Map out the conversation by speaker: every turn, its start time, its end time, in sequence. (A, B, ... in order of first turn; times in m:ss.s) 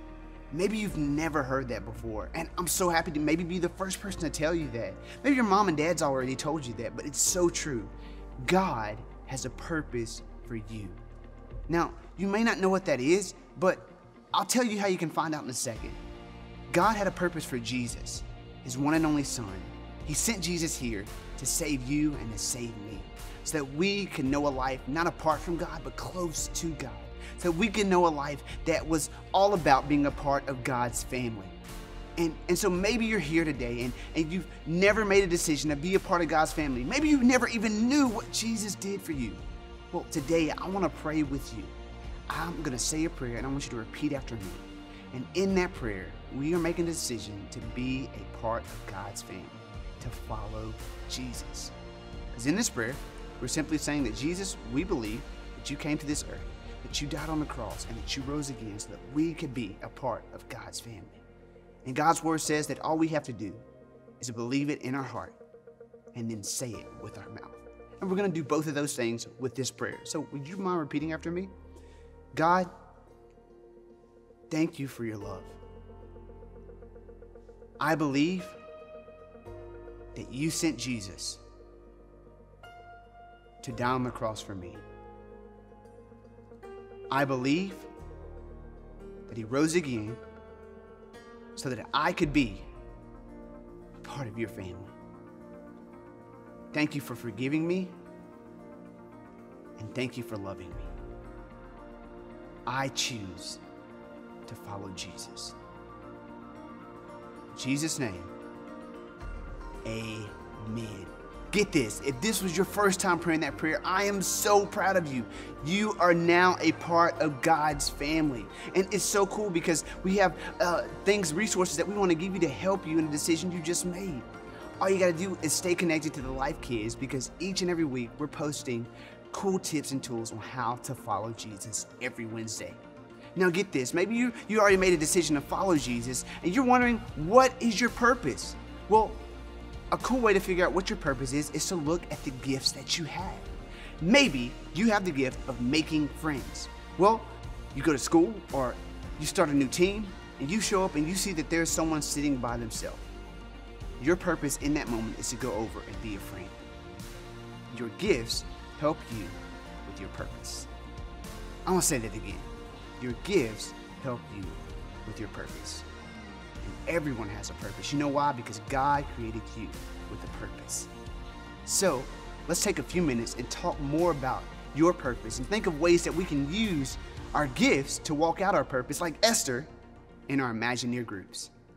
0:00.5-0:11.0 A
0:11.7-0:16.0 A
0:16.7-0:31.6 A
0:32.2-0:41.7 A
0:42.3-0:51.7 A
0:52.3-1:01.2 A
1:01.8-1:03.6 A
1:04.2-1:05.4 A
1:06.1-1:11.5 A
1:12.3-1:12.7 A
1:14.5-1:15.6 A
1:17.8-1:18.6 A
1:20.1-1:21.4 A
1:23.6-1:24.8 A
1:27.1-1:27.9 A
1:29.3-1:30.2 A
1:31.6-1:32.7 A
1:34.0-1:34.9 A
1:36.7-1:38.0 A
1:39.8-1:40.9 A
1:42.7-1:43.6 A
1:44.5-1:45.6 A
1:47.5-1:48.3 A
1:49.8-2:04.3 A
2:04.8-2:12.8 A
2:13.4-2:19.3 A
2:19.9-2:23.5 A
2:24.0-2:33.1 A
2:34.0-2:36.6 A
2:37.7-2:40.7 A
2:41.6-2:45.9 A
2:46.6-2:50.9 A
2:51.6-2:59.7 A
3:00.3-3:01.5 A